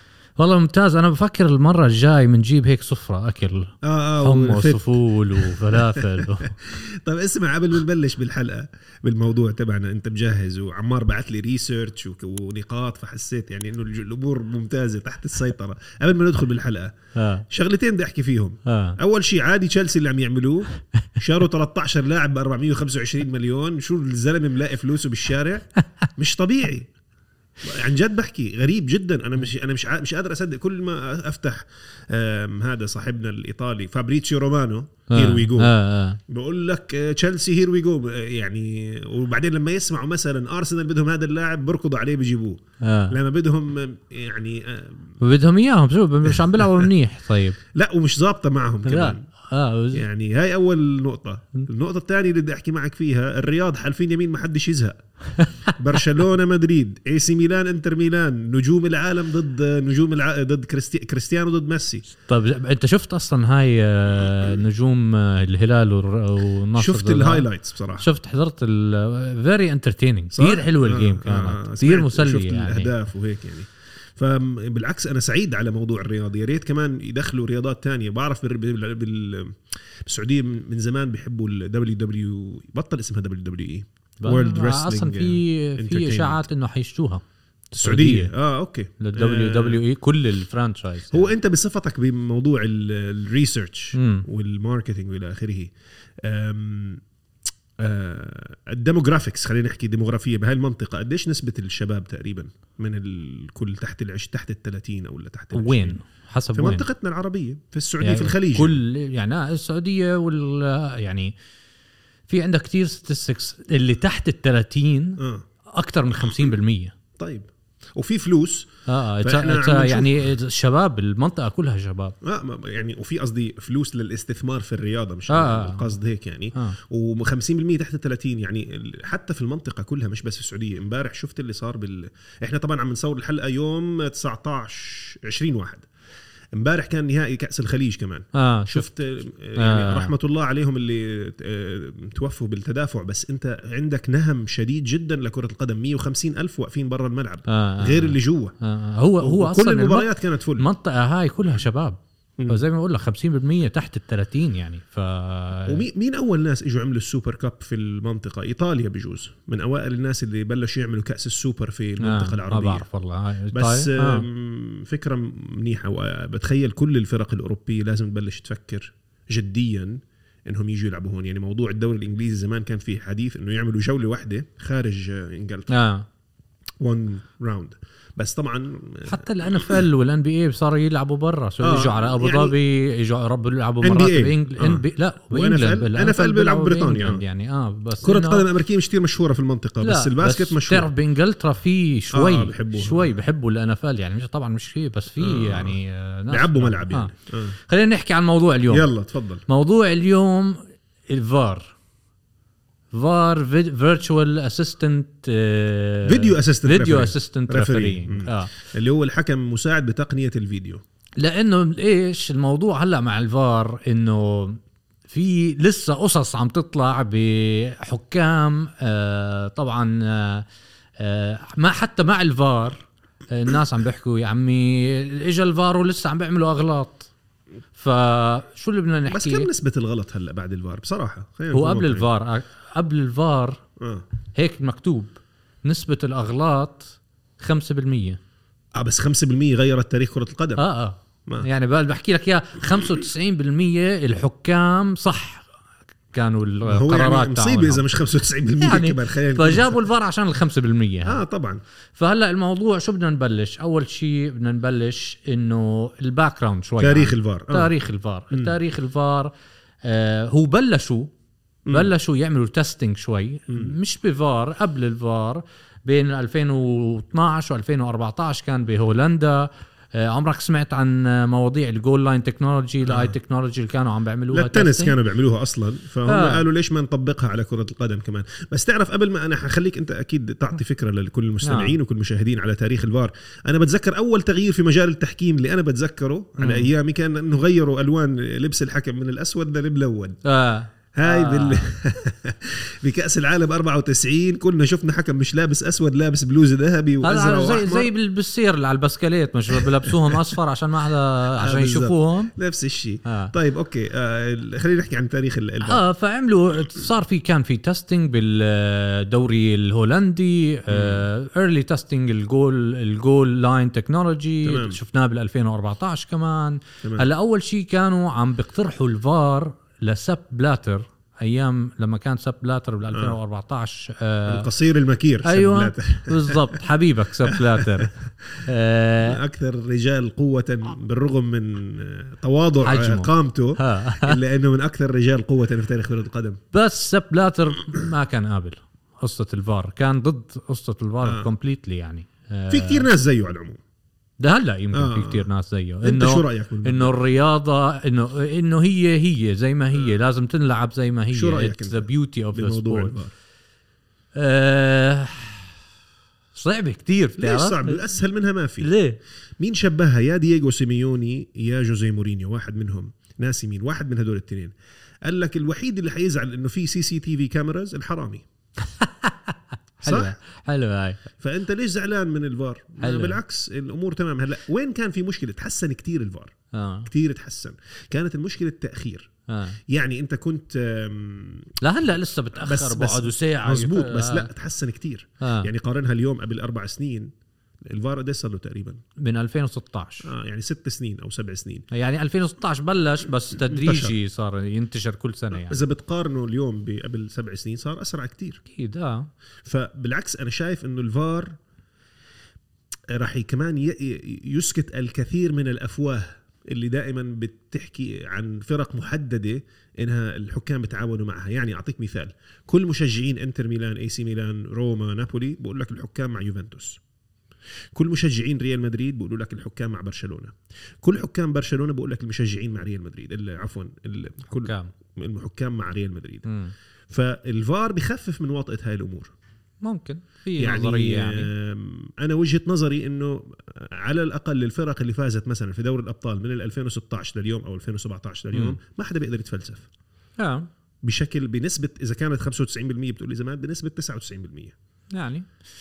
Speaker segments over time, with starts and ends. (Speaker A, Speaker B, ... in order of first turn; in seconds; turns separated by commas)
Speaker A: 0.4-6.5, Speaker B: 3.8-16.9, Speaker A: 17.1-17.4, Speaker B: 17.5-26.9, Speaker A: 18.6-19.0, Speaker B: 27.6-35.7, Speaker A: 35.1-36.2, Speaker B: 36.3-45.1, Speaker A: 42.8-43.1, Speaker A: 45.2-47.6, Speaker B: 46.2-46.9, Speaker B: 47.7-49.2, Speaker A: 48.9-50.0, Speaker B: 49.9-55.0, Speaker A: 55.4-55.7, Speaker B: 55.8-62.1, Speaker A: 62.2-72.9, Speaker B: 64.2-64.5, Speaker B: 66.8-68.1, Speaker B: 70.3-86.4, Speaker A: 84.2-87.2, Speaker A: 87.7-88.3, Speaker B: 87.8-89.8, Speaker A: 89.0-91.3, Speaker B: 91.1-97.0, Speaker A: 93.9-94.3, Speaker B: 97.8-106.0, Speaker A: 105.5-106.8, Speaker B: 106.5-108.8, Speaker A: 108.0-111.3, Speaker A: 112.3-116.9, Speaker B: 115.2-115.4, Speaker B: 117.2-118.7, Speaker A: 118.8-122.1, Speaker B: 119.2-120.3, Speaker B: 122.2-135.9, Speaker A: 125.3-125.9, Speaker B: 136.6-148.5, Speaker A: 138.3-138.9, Speaker A: 139.5-140.1, Speaker A: 147.5-155.8, Speaker B: 149.2-150.7, Speaker B: 155.7-162.9, Speaker A: 162.0-164.2, Speaker B: 163.5-175.7, Speaker A: 175.7-176.1, Speaker B: 176.8-179.8, Speaker A: 179.0-188.4, Speaker B: 181.6-182.6, Speaker B: 183.8-187.2, Speaker B: 188.0-190.9, Speaker A: 189.8-197.1, Speaker B: 192.1-193.2, Speaker B: 195.2-195.8, Speaker B: 196.3-197.6, Speaker A: 197.7-198.9, Speaker B: 198.7-199.4, Speaker A: 199.5-201.7, Speaker A: 202.9-208.5, Speaker B: 206.0-210.8, Speaker A: 211.2-220.4, Speaker A: 221.0-227.1, Speaker A: 227.8-229.5, Speaker B: 229.1-232.1, Speaker A: 231.5-233.6, Speaker B: 233.8-234.0, Speaker A: 234.3-238.2, Speaker B: 238.8-240.6, Speaker A: 240.6-245.4, Speaker A: 246.1-247.8, Speaker B: 246.7-249.8, Speaker A: 248.6-251.2, Speaker B: 251.1-251.6, Speaker A: 251.9-259.3, Speaker B: 256.8-257.7, Speaker A: 259.8-261.1, Speaker B: 261.6-261.9, Speaker A: 261.7-274.9, Speaker B: 263.5-263.8, Speaker B: 272.8-273.1, Speaker B: 274.3-290.2, Speaker A: 276.1-276.4, Speaker A: 281.4-281.8, Speaker A: 286.4-286.7, Speaker A: 290.2-291.7, Speaker B: 290.9-297.9, Speaker A: 297.0-302.3, Speaker B: 299.5-300.4, Speaker B: 301.4-305.8, Speaker A: 303.1-303.3, Speaker A: 305.6-324.5, Speaker B: 310.7-311.1, Speaker B: 314.4-314.8, Speaker B: 322.9-323.2, Speaker B: 324.3-326.6, Speaker A: 325.2-329.2, Speaker B: 327.2-328.5, Speaker B: 329.0-336.4, Speaker A: 332.6-334.2, Speaker A: 336.5-342.9, Speaker B: 341.0-341.3, Speaker B: 342.5-343.6, Speaker A: 344.2-353.0, Speaker B: 344.7-345.3, Speaker B: 345.8-347.0, Speaker B: 351.1-353.1, Speaker A: 354.1-355.5, Speaker A: 356.3-357.8, Speaker B: 357.2-358.7, Speaker A: 358.6-359.0, Speaker B: 359.4-364.5, Speaker B: 365.0-368.2, Speaker A: 368.6-371.0, Speaker B: 369.8-370.1, Speaker B: 371.2-376.3, Speaker A: 372.8-373.2, Speaker A: 376.5-376.9, Speaker B: 376.9-379.1, Speaker A: 379.3-379.6, Speaker B: 379.7-381.5, Speaker A: 381.6-384.3, Speaker B: 382.4-387.1, Speaker A: 385.2-385.5, Speaker B: 387.6-388.8, Speaker A: 389.0-390.1, Speaker B: 390.0-391.7, Speaker A: 391.7-395.6, Speaker B: 393.4-393.9, Speaker B: 395.3-398.4, Speaker A: 398.5-399.1, Speaker B: 399.4-401.3, Speaker B: 402.9-416.8, Speaker B: 417.7-426.2, Speaker A: 424.3-424.7, Speaker A: 426.2-426.5, Speaker B: 426.9-429.1, Speaker A: 429.6-431.3, Speaker B: 430.4-439.6, Speaker A: 440.2-440.5, Speaker B: 440.8-444.5, Speaker A: 444.9-445.3